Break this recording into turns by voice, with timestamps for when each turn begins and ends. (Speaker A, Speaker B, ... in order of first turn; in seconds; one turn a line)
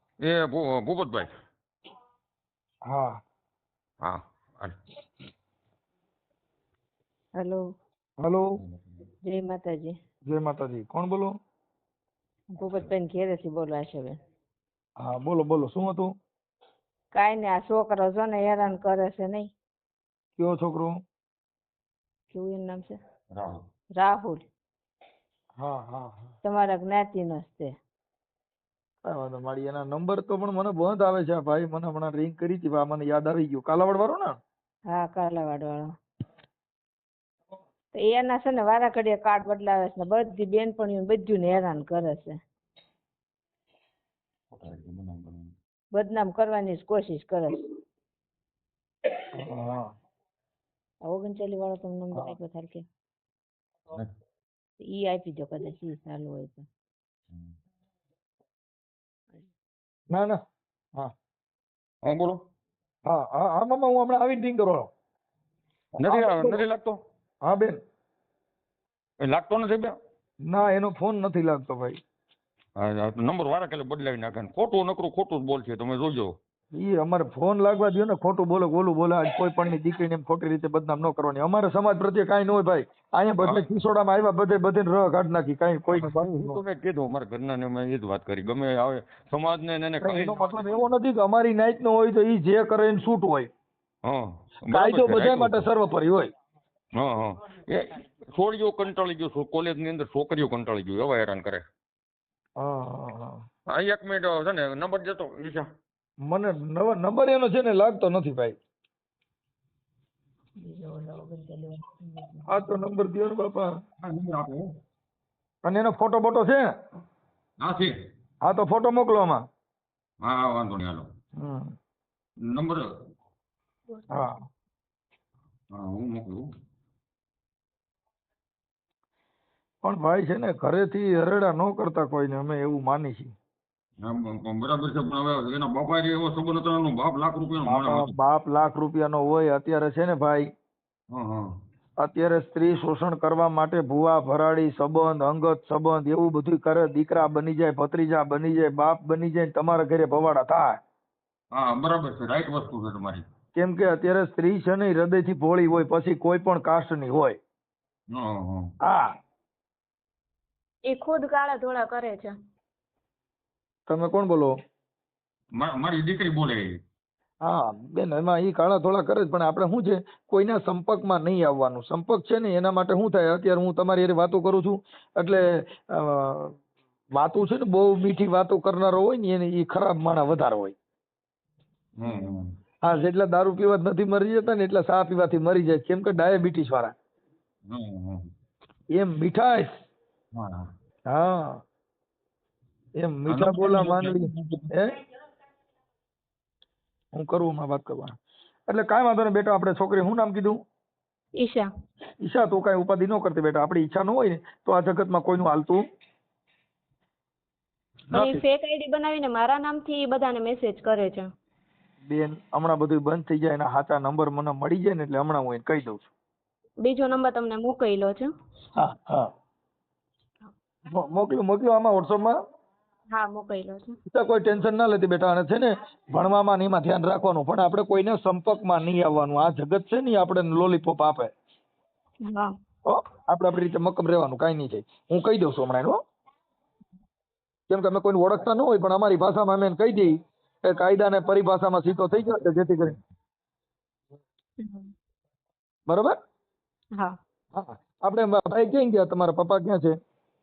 Speaker A: 0.2-1.3
Speaker B: 2.9-3.2
Speaker A: 4.0-4.8
Speaker C: 7.4-7.6
Speaker B: 8.2-8.6
Speaker C: 9.2-10.0
Speaker B: 10.3-11.3
Speaker C: 12.6-14.2
Speaker B: 15.0-16.1
Speaker C: 17.1-19.5
Speaker B: 20.4-21.0
Speaker C: 22.3-23.0
Speaker A: 23.3-23.6
Speaker C: 24.0-24.5
Speaker B: 25.6-26.3
Speaker C: 26.4-27.7
Speaker B: 29.1-34.4
Speaker C: 34.9-35.9
Speaker C: 37.9-42.4
Speaker A: 44.5-45.5
Speaker C: 45.9-47.6
Speaker B: 49.3-49.9
Speaker C: 51.0-52.9
Speaker C: 54.8-56.7
Speaker B: 60.1-60.4
Speaker A: 62.0-62.4
Speaker B: 63.1-64.9
Speaker A: 66.0-67.0
Speaker B: 66.0-66.6
Speaker B: 67.4-67.8
Speaker A: 69.2-70.0
Speaker B: 70.4-72.0
Speaker A: 72.8-76.4
Speaker B: 76.7-86.6
Speaker A: 85.9-90.9
Speaker B: 90.0-93.5
Speaker A: 94.0-95.6
Speaker B: 94.7-96.3
Speaker A: 97.0-101.6
Speaker B: 102.6-103.4
Speaker A: 103.7-105.7
Speaker B: 106.2-108.6
Speaker C: 110.6-112.7
Speaker B: 112.5-113.7
Speaker A: 114.0-114.7
Speaker B: 115.6-116.7
Speaker A: 117.6-118.0
Speaker B: 118.4-119.4
Speaker A: 120.2-121.1
Speaker B: 121.4-121.8
Speaker A: 122.5-122.9
Speaker B: 124.1-124.4
Speaker A: 125.7-126.5
Speaker B: 129.8-133.3
Speaker A: 134.0-138.1
Speaker B: 137.6-140.5
Speaker A: 141.1-141.5
Speaker B: 142.0-150.8
Speaker A: 151.5-153.2
Speaker B: 153.5-157.4
Speaker A: 158.1-158.7
Speaker B: 158.8-159.1
Speaker D: 160.8-162.3
Speaker B: 163.9-164.5
Speaker A: 165.5-166.8
Speaker B: 167.4-176.6
Speaker B: 177.2-180.7
Speaker A: 182.0-182.5
Speaker B: 182.8-186.9
Speaker A: 187.7-188.3
Speaker B: 188.9-189.7
Speaker A: 190.3-190.7
Speaker B: 191.1-191.6
Speaker B: 193.0-195.0
Speaker A: 193.3-194.7
Speaker B: 197.1-200.6
Speaker D: 201.4-201.7
Speaker B: 202.2-205.8
Speaker D: 208.1-211.3
Speaker B: 212.0-216.1
Speaker D: 216.8-218.3
Speaker B: 218.8-219.3
Speaker B: 220.9-222.4
Speaker D: 223.1-224.0
Speaker B: 224.1-231.3
Speaker D: 232.2-232.5
Speaker B: 232.8-236.0
Speaker B: 237.7-243.0
Speaker D: 244.6-244.9
Speaker B: 245.9-246.2
Speaker B: 247.5-250.0